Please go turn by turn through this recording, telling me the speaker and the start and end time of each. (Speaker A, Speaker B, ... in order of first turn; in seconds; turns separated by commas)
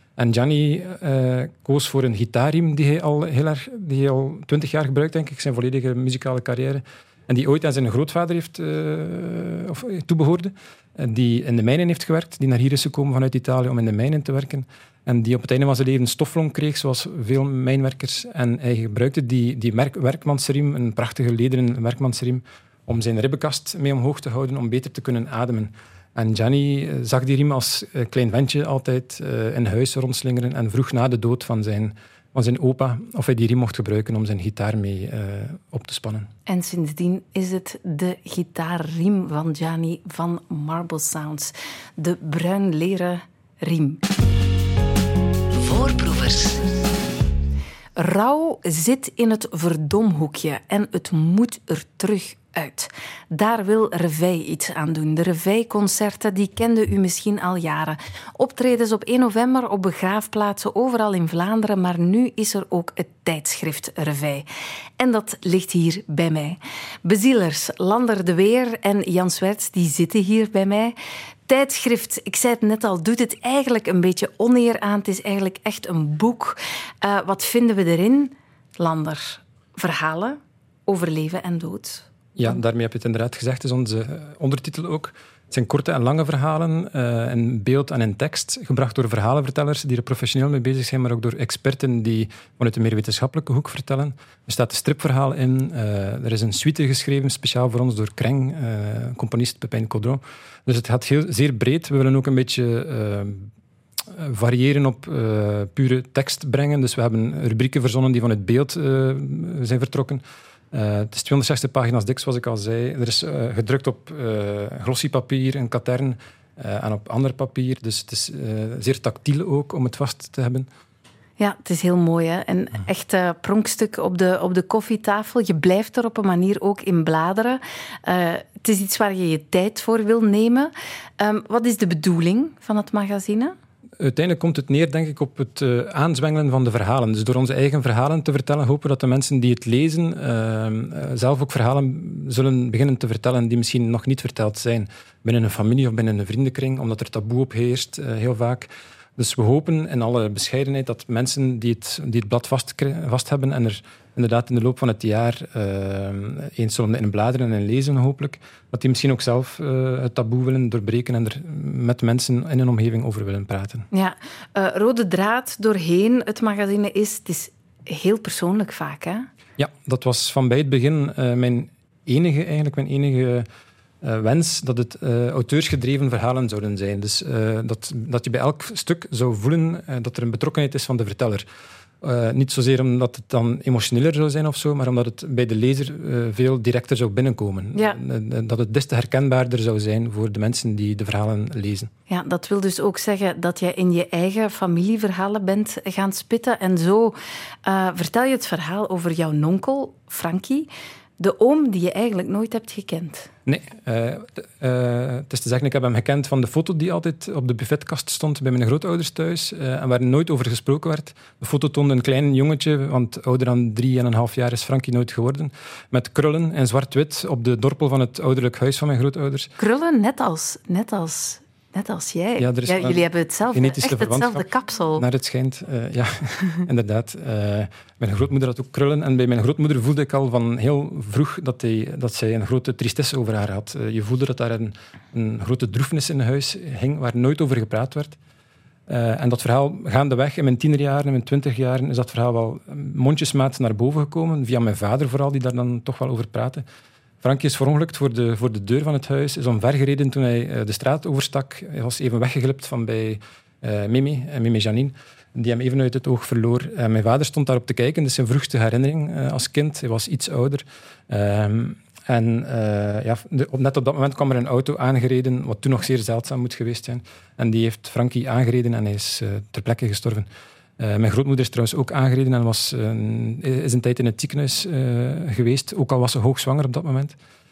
Speaker A: 0.2-36.3, Speaker B: 36.5-44.0, Speaker B: 45.5-46.7, Speaker B: 48.0-64.5, Speaker B: 65.0-70.9, Speaker B: 71.5-82.1, Speaker A: 82.3-103.5, Speaker A: 104.1-120.7, Speaker B: 121.4-133.5, Speaker A: 134.0-163.8, Speaker B: 163.9-169.3, Speaker A: 169.6-173.4, Speaker A: 174.0-181.4, Speaker A: 182.0-191.9, Speaker B: 192.1-203.3, Speaker A: 203.4-219.5, Speaker B: 219.6-225.0, Speaker A: 222.4-238.2, Speaker A: 238.9-246.6, Speaker A: 247.2-270.3, Speaker A: 270.8-277.1